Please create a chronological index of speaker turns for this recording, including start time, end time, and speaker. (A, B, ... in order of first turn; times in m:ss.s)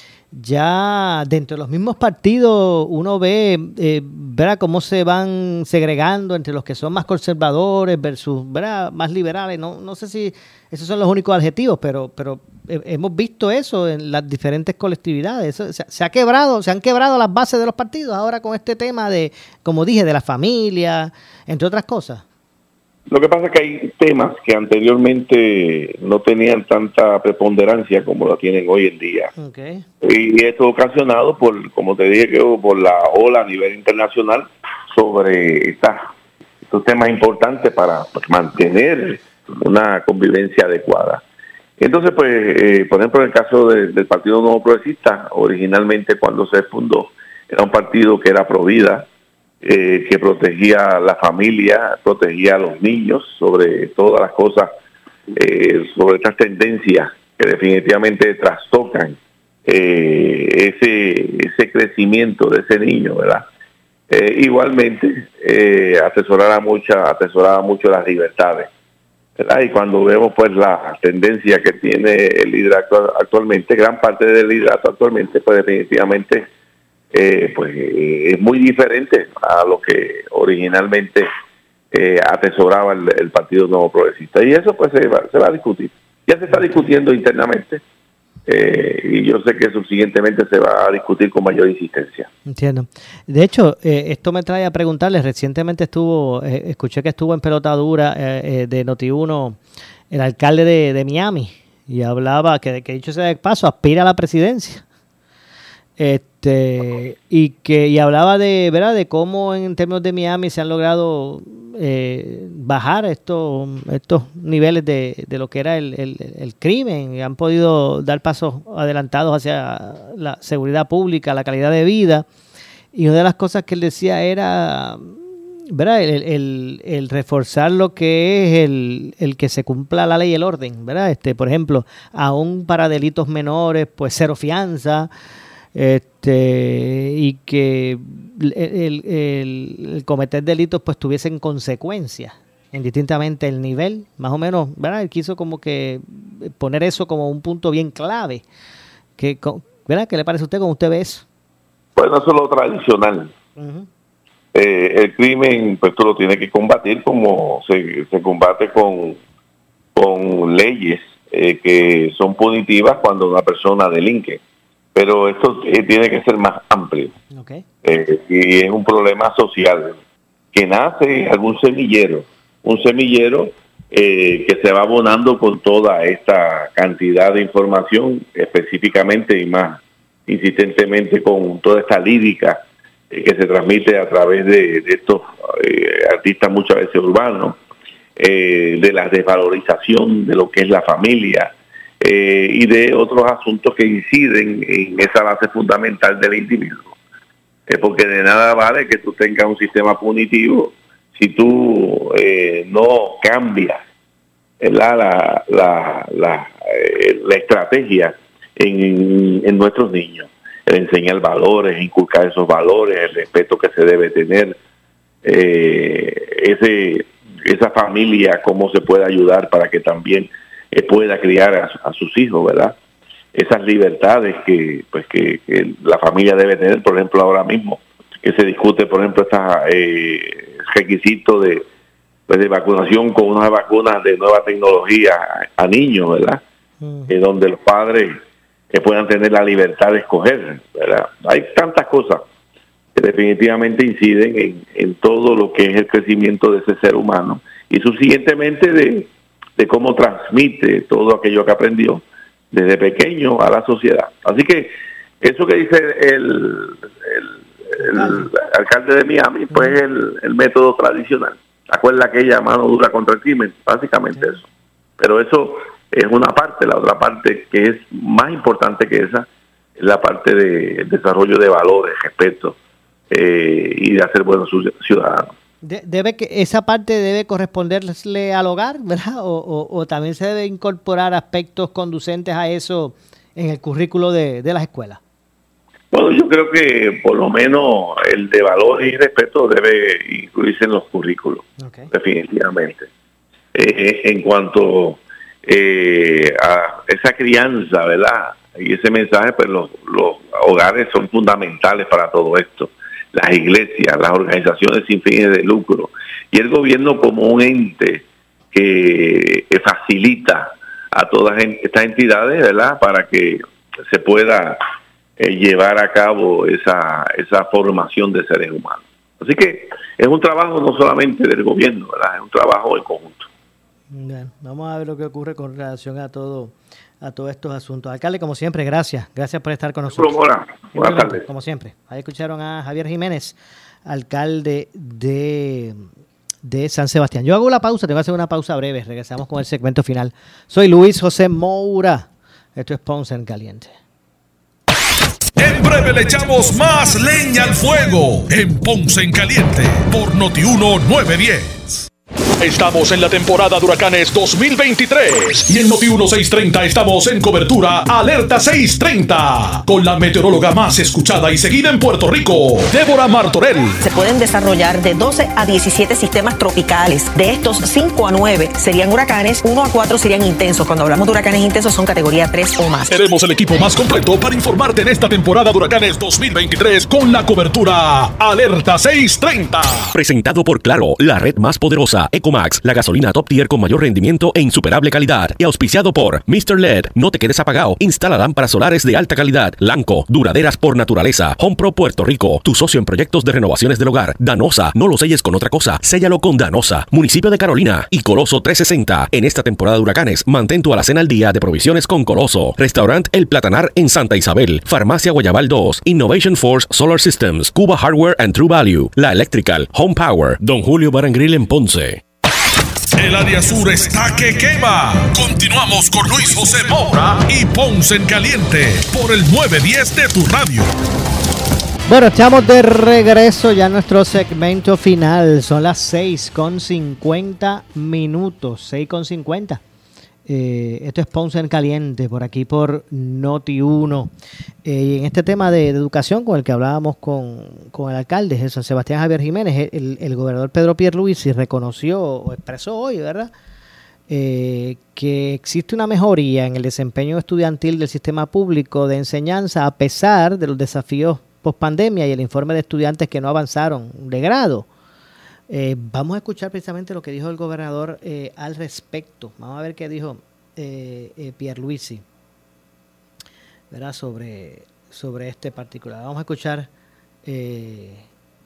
0:00.3-0:22.2 A
0:23.1-0:29.3 B
0:29.4-0:29.9 A
0:30.0-0:36.0 B
0:36.6-0:41.2 B
0:41.8-0:49.1 B
0:49.6-0:54.7 B
0:55.3-1:03.5 B
1:04.1-1:08.7 B
1:09.4-1:16.5 B
1:17.1-1:21.3 B
1:21.9-1:27.8 B
1:28.5-1:32.3 B
1:32.5-1:39.6 A
1:40.1-1:44.8 A
1:46.0-2:02.3 A
2:02.9-2:05.2 A
2:05.7-2:15.1 A
2:15.8-2:28.4 A
2:29.2-2:31.2 A
2:32.0-2:33.3 B
2:33.6-2:33.9 A
2:34.5-2:39.2 B
2:40.0-2:44.4 B
2:45.0-2:47.2 B
2:47.3-2:47.6 A
2:47.8-2:50.0 B
2:50.5-3:07.6 B
3:08.2-3:17.0 B
3:17.7-3:23.8 B
3:24.6-3:34.6 B
3:35.2-3:42.8 B
3:43.3-3:51.6 B
3:52.3-3:56.4 B
3:56.8-3:57.1 A
3:57.1-3:58.2 B
3:58.7-4:02.2 B
4:03.0-4:24.4 B
4:17.8-4:18.3 A
4:19.5-4:19.8 A
4:25.0-4:29.3 B
4:29.8-4:32.6 B
4:33.1-4:35.3 B
4:35.6-4:45.0 A
4:45.9-4:52.9 B
4:51.6-4:51.9 A
4:53.5-5:14.6 B
5:15.2-5:23.3 B
5:23.9-5:30.2 A
5:29.9-5:31.2 B
5:30.7-5:35.9 A
5:36.4-5:43.7 A
5:45.4-5:51.9 C
5:52.4-6:03.8 C
6:03.8-6:12.9 D
6:12.9-6:20.0 C
6:19.9-6:52.0 E
6:53.0-7:00.7 C
7:01.9-7:09.6 A
7:10.3-7:14.1 A
7:14.6-7:23.3 A
7:24.1-7:34.7 A
7:35.5-7:42.0 A
7:43.7-7:46.7 A
7:47.3-7:48.1 A